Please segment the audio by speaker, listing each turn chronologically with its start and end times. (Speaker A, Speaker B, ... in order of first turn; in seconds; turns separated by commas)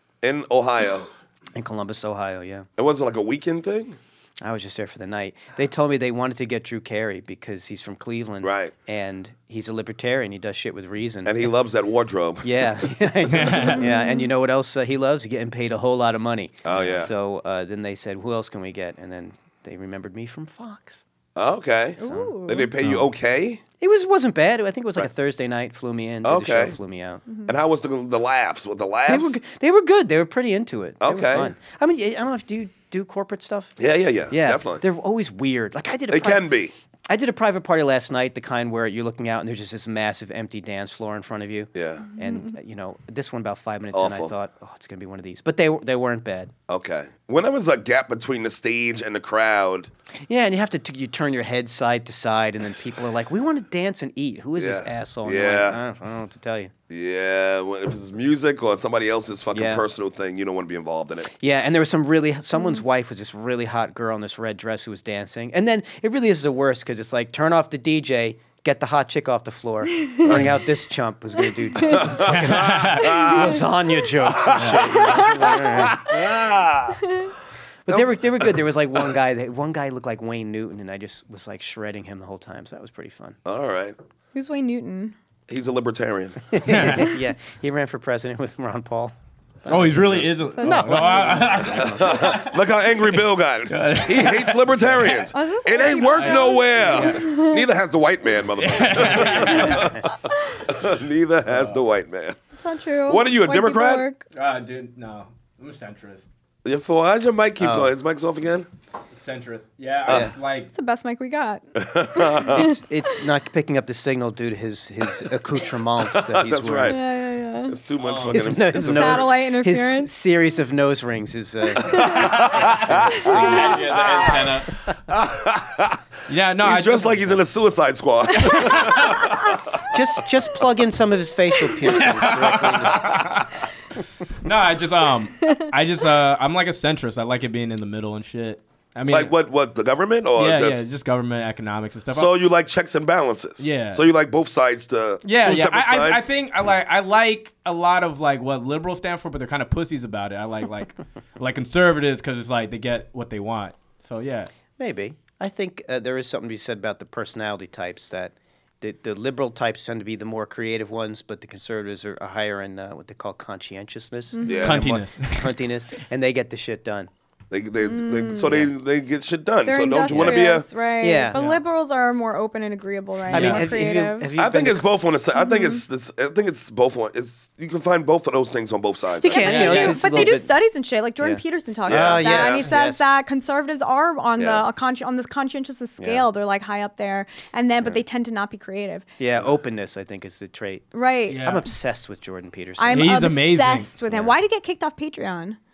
Speaker A: 0.2-1.1, Speaker B: 1.6-2.7, Speaker A: 2.8-4.0, Speaker B: 4.4-11.5, Speaker A: 8.4-8.7, Speaker A: 11.2-12.7, Speaker B: 12.4-21.0, Speaker C: 13.3-13.8, Speaker D: 13.6-14.3, Speaker A: 16.6-17.1, Speaker A: 21.4-23.6, Speaker D: 22.0-22.7, Speaker B: 22.0-23.0, Speaker B: 23.8-27.2, Speaker A: 26.2-26.8, Speaker A: 27.5-29.4, Speaker B: 29.1-33.7, Speaker A: 31.0-31.5, Speaker A: 33.8-34.8, Speaker B: 34.3-36.5, Speaker A: 36.1-36.7, Speaker B: 37.1-46.5, Speaker A: 41.8-42.1, Speaker D: 42.1-42.5, Speaker A: 43.9-44.3, Speaker A: 46.7-49.9, Speaker B: 50.3-56.7, Speaker A: 54.6-55.8, Speaker A: 56.9-61.3, Speaker B: 59.5-59.8, Speaker B: 61.3-76.1, Speaker A: 70.2-70.5, Speaker D: 71.8-72.2, Speaker A: 71.9-73.5, Speaker C: 72.2-73.1, Speaker D: 73.1-73.6, Speaker A: 74.3-77.0, Speaker C: 74.6-74.8, Speaker D: 75.0-76.0, Speaker B: 77.9-83.4, Speaker A: 83.5-84.0, Speaker D: 84.3-85.2, Speaker A: 85.5-86.6, Speaker B: 86.5-92.4, Speaker C: 86.7-87.1, Speaker C: 89.7-92.5, Speaker D: 90.6-91.5, Speaker A: 91.7-102.4, Speaker C: 93.7-95.1, Speaker D: 95.1-97.6, Speaker C: 96.1-97.3, Speaker C: 98.6-100.0, Speaker B: 99.7-99.9, Speaker C: 101.5-101.8, Speaker D: 102.6-104.2, Speaker A: 103.1-104.1, Speaker C: 104.3-106.2, Speaker A: 106.7-108.7, Speaker B: 107.6-107.9, Speaker C: 109.1-110.7, Speaker B: 110.1-110.3, Speaker D: 110.7-112.8, Speaker A: 111.8-112.7, Speaker B: 112.5-117.0, Speaker A: 116.1-117.0, Speaker D: 116.9-117.8, Speaker A: 117.7-119.3, Speaker C: 118.0-118.4, Speaker B: 118.3-124.2, Speaker D: 118.7-120.1, Speaker D: 121.8-122.4, Speaker A: 121.9-124.5, Speaker C: 122.4-124.7, Speaker D: 123.3-123.8, Speaker A: 125.1-126.0, Speaker C: 126.3-127.4, Speaker A: 126.6-129.9, Speaker D: 128.4-129.3, Speaker B: 129.9-133.3, Speaker C: 131.9-133.5, Speaker C: 134.4-139.3, Speaker A: 139.1-140.8, Speaker C: 140.4-142.3, Speaker A: 142.1-146.3, Speaker C: 143.6-144.0, Speaker C: 145.2-154.5, Speaker B: 154.8-167.1, Speaker D: 164.3-164.9, Speaker A: 164.4-164.8, Speaker C: 164.6-165.5, Speaker A: 167.5-170.7, Speaker D: 167.8-168.7, Speaker B: 168.4-168.7, Speaker D: 169.7-174.3, Speaker B: 170.1-170.5, Speaker B: 171.0-171.4, Speaker C: 171.3-171.6, Speaker B: 173.3-174.9, Speaker C: 173.3-173.6, Speaker A: 174.4-179.8, Speaker D: 175.3-175.8, Speaker B: 179.2-180.5, Speaker D: 179.2-189.1, Speaker C: 179.4-180.0, Speaker B: 181.2-183.1, Speaker A: 181.9-182.7, Speaker A: 184.4-184.7, Speaker B: 186.0-186.3, Speaker B: 189.2-193.2, Speaker D: 190.9-191.5, Speaker C: 191.3-191.7, Speaker D: 192.8-195.6, Speaker C: 192.9-193.9, Speaker B: 194.1-194.4